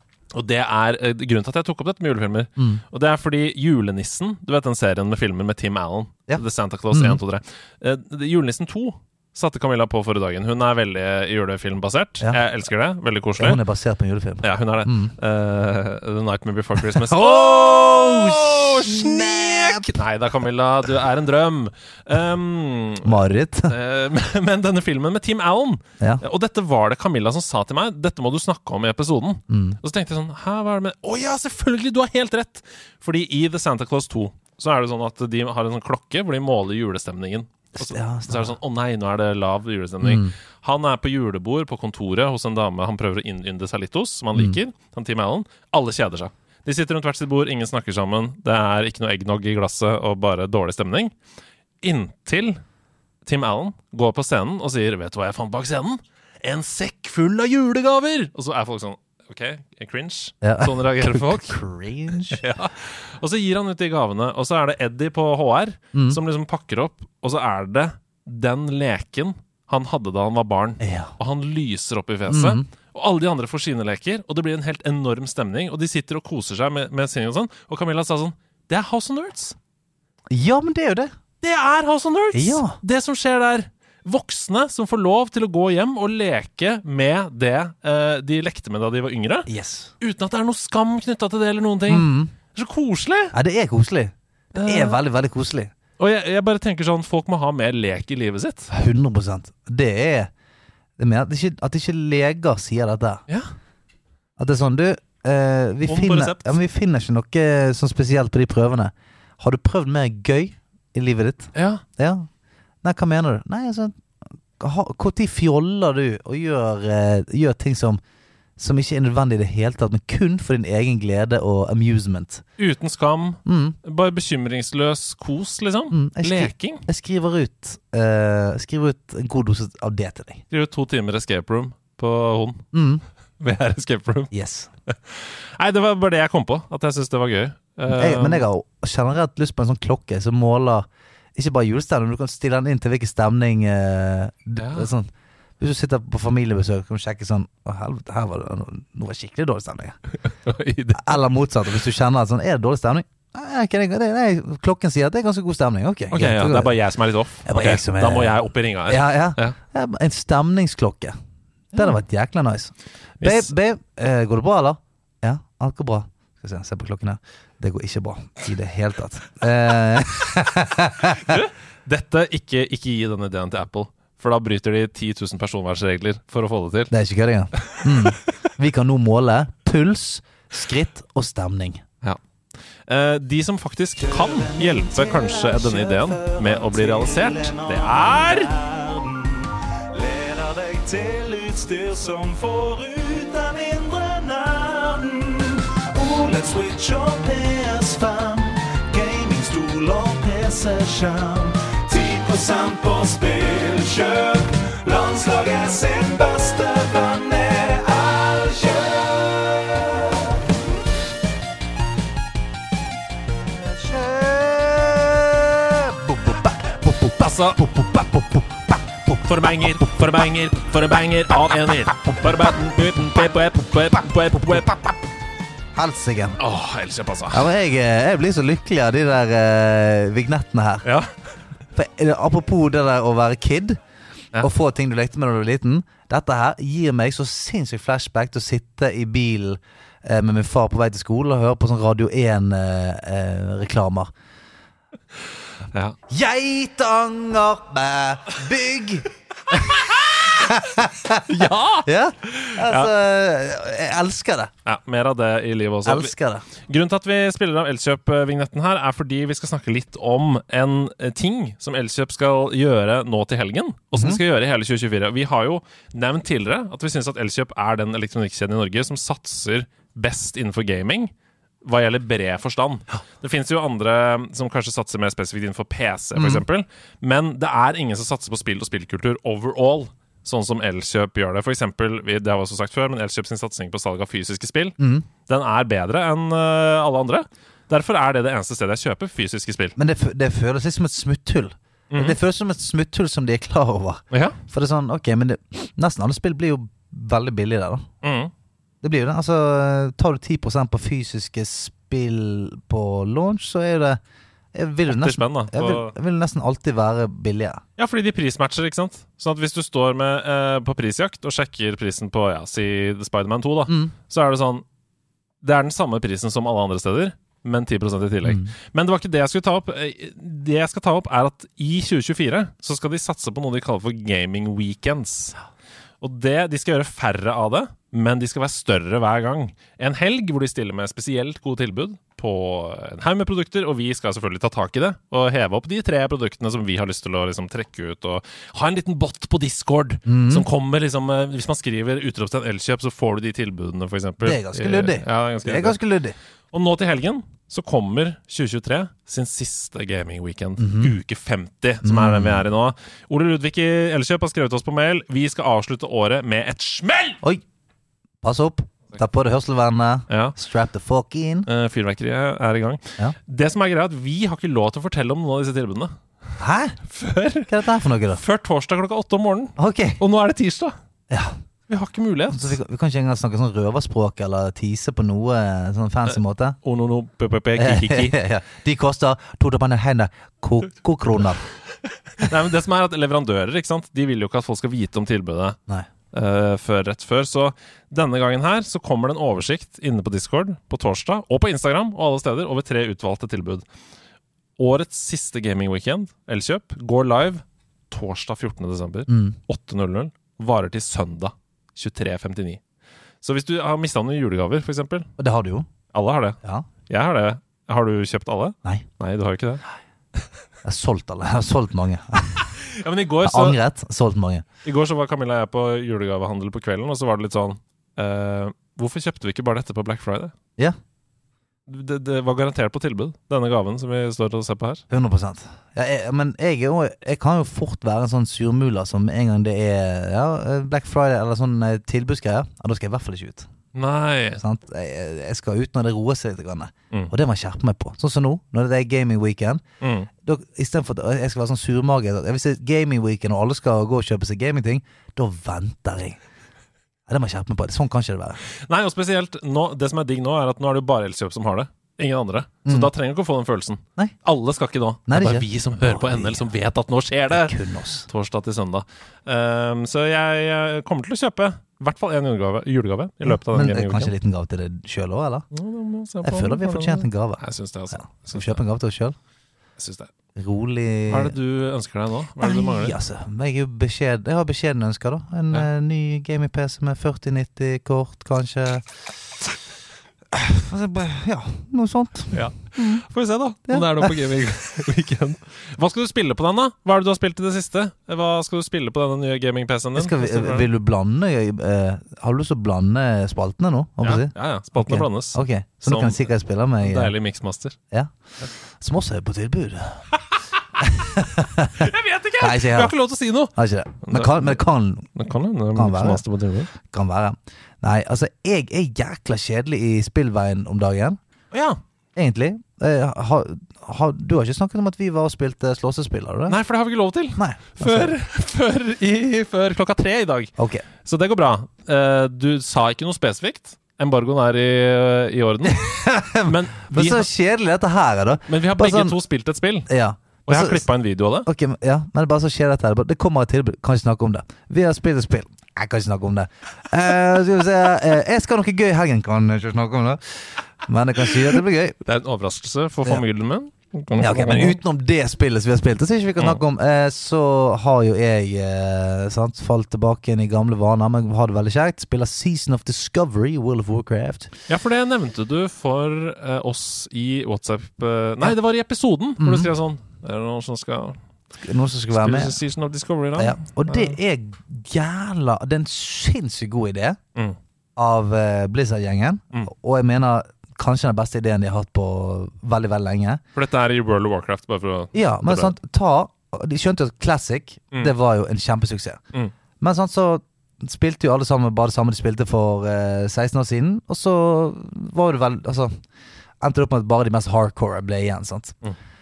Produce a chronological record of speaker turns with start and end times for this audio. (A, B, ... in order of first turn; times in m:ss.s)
0:00.3-0:13.6 A
0:02.6-0:02.8 B
0:06.3-0:07.2 B
0:13.4-0:15.1 B
0:14.4-0:23.1 A
0:16.8-0:19.9 B
0:23.0-0:23.7 B
0:23.7-0:51.1 A
0:29.5-0:29.8 B
0:37.7-0:38.5 B
0:40.0-0:40.3 B
0:51.8-0:52.6 A
0:53.2-1:01.6 A
1:00.4-1:02.4 B
1:02.3-1:19.6 A
1:05.9-1:06.2 B
1:10.8-1:11.1 B
1:12.3-1:12.6 B
1:20.3-1:21.1 B
1:21.4-1:29.5 A
1:22.3-1:22.8 B
1:29.5-1:29.9 B
1:30.0-1:33.3 A
1:31.9-1:32.3 B
1:33.3-1:35.7 B
1:34.5-1:35.0 A
1:36.0-1:38.7 A
1:38.7-1:40.3 B
1:41.0-1:43.2 B
1:44.4-1:52.3 B
1:45.8-1:46.6 A
1:51.5-1:51.8 A
1:52.8-1:54.0 B
1:54.6-1:58.0 B
1:58.6-2:02.4 B
2:02.6-2:06.8 A
2:03.4-2:03.8 B
2:05.9-2:10.4 B
2:10.5-2:12.6 A
2:12.7-2:13.0 B
2:13.4-2:14.3 A
2:14.3-2:14.7 B
2:14.9-2:18.4 A
2:17.9-2:30.0 B
2:24.6-2:24.9 A
2:30.2-2:31.2 A
2:30.9-2:36.8 B
2:36.1-2:39.6 A
2:37.4-2:41.2 B
2:41.7-2:51.4 B
2:43.2-2:43.5 A
2:51.1-2:56.9 A
2:56.9-3:01.8 B
2:57.6-2:58.1 A
3:02.9-3:08.5 A
3:04.2-3:30.3 C
3:34.0-3:34.2 C
3:34.0-3:39.2 B
3:37.2-3:37.6 A
3:39.2-3:44.9 A
3:44.3-3:44.6 B
3:45.7-3:46.4 B
3:46.4-3:47.5 A
3:47.3-3:50.8 B
3:50.8-3:51.1 A
3:51.7-3:53.8 B
3:54.4-4:04.1 B
4:06.1-4:14.5 B
4:11.2-4:12.9 A
4:14.6-4:16.1 A
4:15.8-4:16.4 B
4:16.6-4:31.1 A
4:23.9-4:24.2 B
4:31.6-4:44.8 A
4:36.2-4:36.4 B
4:44.8-4:45.1 B
4:45.3-4:49.8 A
4:49.8-4:57.8 B
4:51.9-4:52.2 A
4:54.1-4:54.4 A
4:58.0-4:58.3 A
4:58.8-5:04.0 B
5:04.5-5:07.6 B
5:04.9-5:05.9 A
5:07.8-5:14.6 A
5:13.7-5:13.9 B
5:15.4-5:25.4 A
5:18.2-5:18.5 B
5:26.0-5:45.8 A
5:40.0-5:40.4 B
5:44.2-5:46.2 B
5:46.5-5:57.2 A
5:50.6-5:50.9 B
5:51.8-5:52.4 B
5:58.2-6:01.5 B
6:00.1-6:00.4 A
6:01.4-6:05.9 A
6:06.4-6:06.8 B
6:06.9-6:07.5 A
6:07.5-6:08.2 B
6:08.1-6:10.8 A
6:09.6-6:10.0 B
6:11.1-6:11.4 B
6:11.7-6:12.6 A
6:12.3-6:16.6 B
6:16.1-6:18.2 A
6:17.6-6:21.4 B
6:22.2-6:25.6 A
6:26.1-6:33.6 A
6:34.6-6:42.6 A
6:39.1-6:39.4 B
6:43.2-6:45.1 A
6:45.2-6:45.7 B
6:45.9-6:49.6 A
6:50.6-6:52.6 B
6:52.6-6:53.6 A
6:53.2-6:54.4 B
6:54.6-7:00.3 A
7:01.7-7:04.8 A
7:04.9-7:13.5 B
7:13.7-7:14.4 A
7:14.4-7:19.6 B
7:19.8-7:20.1 A
7:20.2-7:26.2 B
7:27.1-7:28.4 B
7:28.6-7:44.1 A
7:35.1-7:36.5 B
7:37.3-7:38.1 B
7:43.2-7:45.4 B
7:45.5-7:48.6 A
7:46.2-7:49.1 B
7:49.8-7:50.1 A
7:50.4-7:51.4 B
7:51.1-7:53.0 A
7:52.4-7:58.9 B
8:00.3-8:03.0 B
8:02.3-8:10.7 A
8:03.6-8:04.1 B
8:09.9-8:17.1 B
8:14.0-8:17.8 A
8:18.8-8:20.0 B
8:20.8-8:23.0 B
8:21.8-8:24.6 A
8:23.5-8:25.1 B
8:25.1-8:26.7 A
8:25.7-8:31.2 B
8:31.5-8:31.8 A
8:32.2-8:36.6 B
8:36.5-8:40.5 A
8:37.3-8:38.1 B
8:40.6-8:40.8 B
8:41.0-8:47.3 A
8:45.7-8:49.2 B
8:48.5-8:49.9 A
8:49.9-8:50.9 B
8:50.5-8:51.5 A
8:51.4-9:02.0 B
9:02.0-9:04.8 A
9:04.2-9:14.5 B
9:06.4-9:06.6 A
9:14.7-9:21.2 A
9:19.4-9:19.7 B
9:21.6-9:22.6 B
9:22.1-9:24.2 A
9:23.4-9:27.2 B
9:28.0-9:33.4 B
9:33.5-9:35.7 A
9:35.1-9:39.2 B
9:39.8-9:46.0 B
9:46.6-9:48.8 B